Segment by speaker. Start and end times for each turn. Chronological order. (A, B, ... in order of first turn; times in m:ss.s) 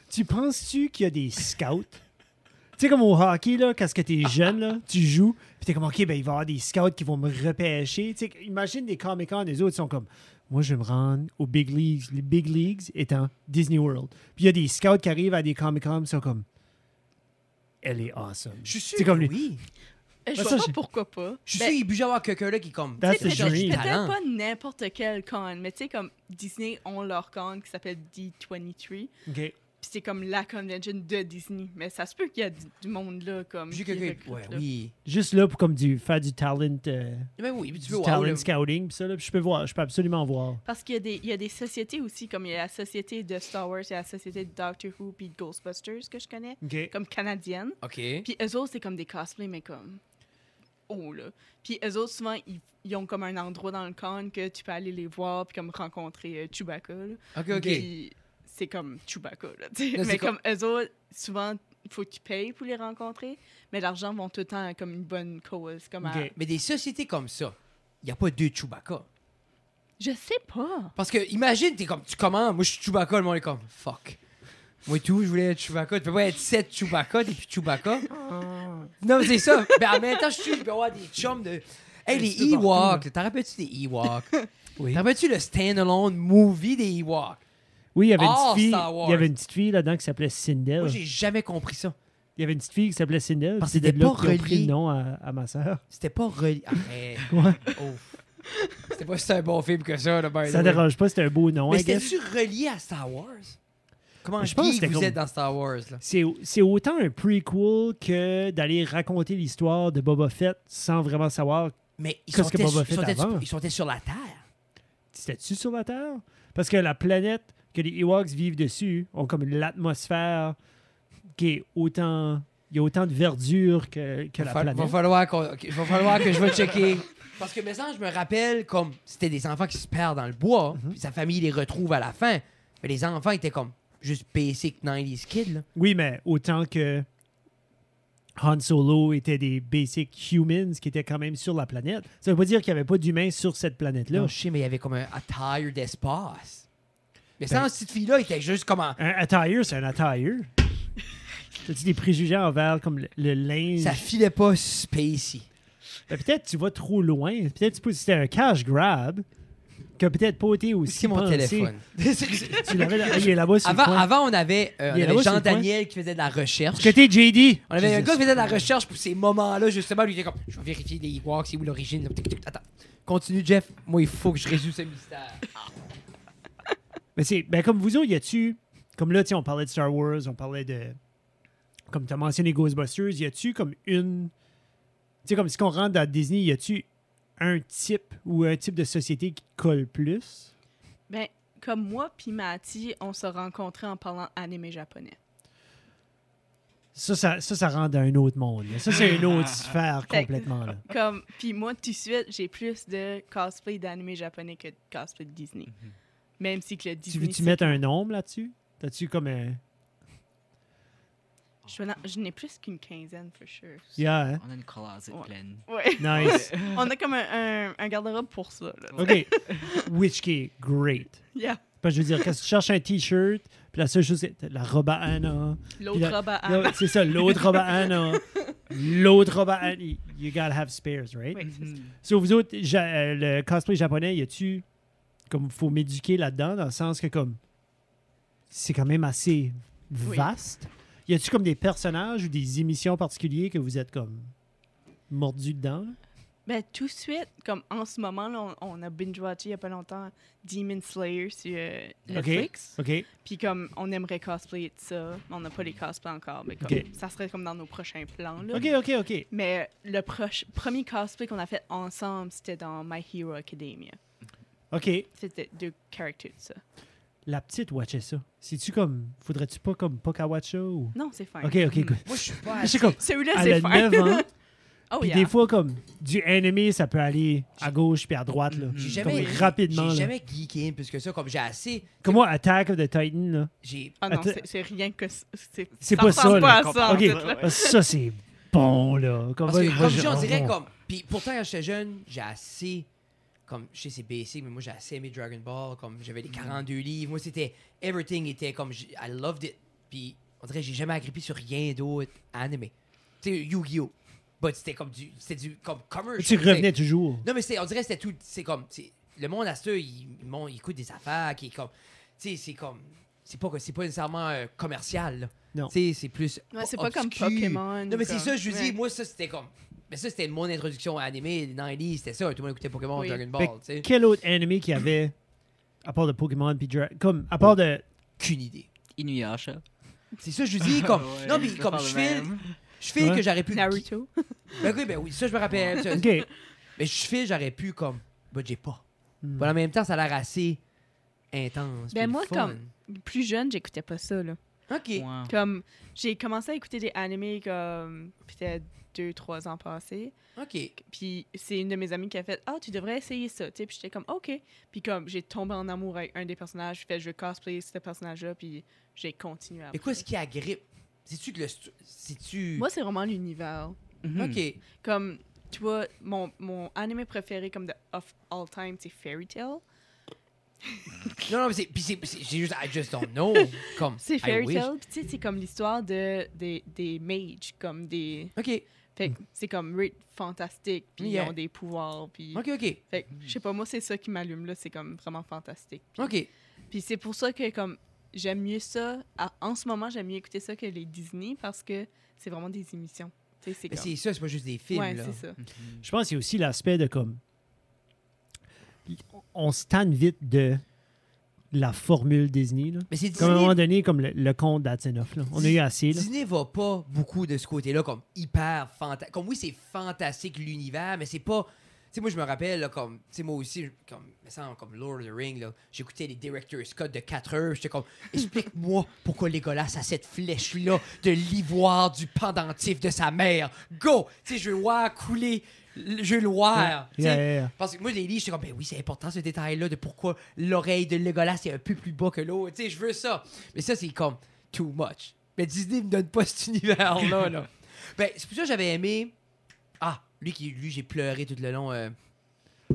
0:00.1-0:02.0 A
0:02.8-0:16.5 A
0:17.8-0:19.3 A
0:18.6-0:19.6 B
0:20.3-0:21.8 C
0:20.4-0:20.8 A
0:21.5-0:24.2 B
0:23.0-0:23.8 A
0:23.0-0:29.1 C
0:29.3-0:29.6 A
0:29.8-0:34.6 C
0:33.7-0:34.9 B
0:35.0-0:40.6 A
0:37.4-0:38.5 B
0:40.6-0:50.0 C
0:46.6-0:46.9 A
0:47.8-0:48.3 B
0:50.9-1:06.3 C
0:57.4-0:57.9 B
0:57.5-0:57.9 A
1:00.0-1:00.3 B
1:06.0-1:06.3 A
1:06.3-1:09.1 B
1:10.0-1:10.9 C
1:11.0-1:14.2 B
1:14.9-1:18.1 B
1:18.2-1:18.8 C
1:19.0-1:27.4 B
1:19.4-1:20.2 C
1:22.1-1:23.1 A
1:28.0-1:31.0 A
1:28.2-1:29.3 B
1:30.8-1:32.0 B
1:32.4-1:35.8 A
1:33.6-1:34.7 B
1:35.9-1:38.2 B
1:37.3-1:37.7 A
1:38.9-1:40.8 B
1:40.4-1:42.1 A
1:41.7-1:43.6 B
1:44.2-1:46.0 B
1:44.4-1:45.2 A
1:46.0-1:51.8 A
1:52.0-1:54.4 B
1:52.3-1:53.5 A
1:55.1-2:00.6 A
2:01.4-2:05.0 A
2:04.4-2:15.6 B
2:15.8-2:17.1 A
2:18.4-2:24.3 A
2:24.1-2:26.7 B
2:27.4-2:29.0 B
2:29.0-2:30.5 A
2:31.6-2:34.0 A
2:33.8-2:35.5 B
2:36.1-2:39.2 A
2:40.0-2:41.7 A
2:40.9-2:47.0 B
2:42.4-2:44.1 A
2:44.9-2:45.7 A
2:46.8-2:48.7 A
2:47.7-2:55.5 B
2:57.2-3:01.0 A
3:01.9-3:04.3 A
3:05.2-3:06.9 A
3:07.4-3:10.5 A
3:11.1-3:15.2 C
3:16.9-3:20.8 A
3:20.1-3:25.7 C
3:26.4-3:27.8 C
3:27.1-3:29.6 A
3:31.7-3:34.0 C
3:34.0-3:34.4 A
3:34.4-3:36.9 D
3:35.1-3:39.9 C
3:36.0-3:36.5 A
3:38.9-3:39.6 D
3:39.0-3:41.2 A
3:41.3-3:41.6 C
3:41.8-3:51.5 A
3:45.8-3:48.6 C
3:51.3-3:51.7 C
3:51.4-3:51.9 D
3:52.0-3:54.6 A
3:55.3-3:57.4 A
3:58.5-4:04.3 A
4:00.0-4:00.3 C
4:05.1-4:06.0 A
4:06.5-4:18.7 C
4:12.1-4:12.5 D
4:12.1-4:13.1 A
4:18.5-4:19.3 A
4:19.3-4:24.0 C
4:24.7-4:25.1 A
4:25.2-4:26.6 C
4:27.3-4:34.3 A
4:31.0-4:31.7 C
4:31.7-4:32.0 D
4:32.0-4:33.0 B
4:32.7-4:34.3 C
4:34.9-4:35.3 C
4:35.0-4:40.1 A
4:38.5-4:39.1 D
4:38.8-4:42.2 B
4:39.1-4:39.4 C
4:42.0-4:43.5 A
4:43.6-4:44.0 B
4:44.0-4:47.8 C
4:44.1-4:44.4 A
4:45.8-4:50.6 A
4:45.8-4:47.5 D
4:49.5-4:52.9 B
4:53.5-5:23.9 B
4:56.3-4:56.6 D
5:06.2-5:07.2 A
5:16.5-5:18.8 C
5:23.0-5:23.2 C
5:23.4-5:25.1 A
5:25.8-5:27.8 A
5:28.2-5:28.7 B
5:29.0-5:29.6 D
5:30.2-5:33.8 B
5:30.6-5:32.5 D
5:33.0-5:33.2 A
5:33.5-5:34.6 C
5:34.6-5:36.1 B
5:35.5-5:35.8 D
5:35.9-5:36.3 A
5:36.8-5:38.8 B
5:39.2-5:39.5 A
5:39.4-5:40.6 B
5:41.3-5:42.7 B
5:41.9-5:44.4 C
5:44.7-5:45.1 B
5:45.0-5:45.3 D
5:45.3-5:50.1 C
5:50.4-5:50.8 B
5:50.8-6:00.0 C
5:59.7-6:02.7 B
6:02.6-6:03.8 C
6:04.0-6:04.4 D
6:04.2-6:04.6 B
6:04.8-6:09.6 C
6:11.2-6:14.7 B
6:14.0-6:18.4 C
6:18.4-6:18.7 B
6:18.9-6:26.1 C
6:21.0-6:21.3 B
6:22.3-6:22.8 B
6:26.0-6:26.3 B
6:26.7-6:33.9 C
6:33.7-6:35.2 B
6:34.7-6:35.4 C
6:35.4-6:35.8 D
6:35.8-6:37.2 A
6:38.9-6:40.6 A
6:41.5-6:46.1 A
6:42.9-6:43.6 B
6:45.4-7:19.1 B
7:06.6-7:07.5 A
7:19.8-7:21.9 B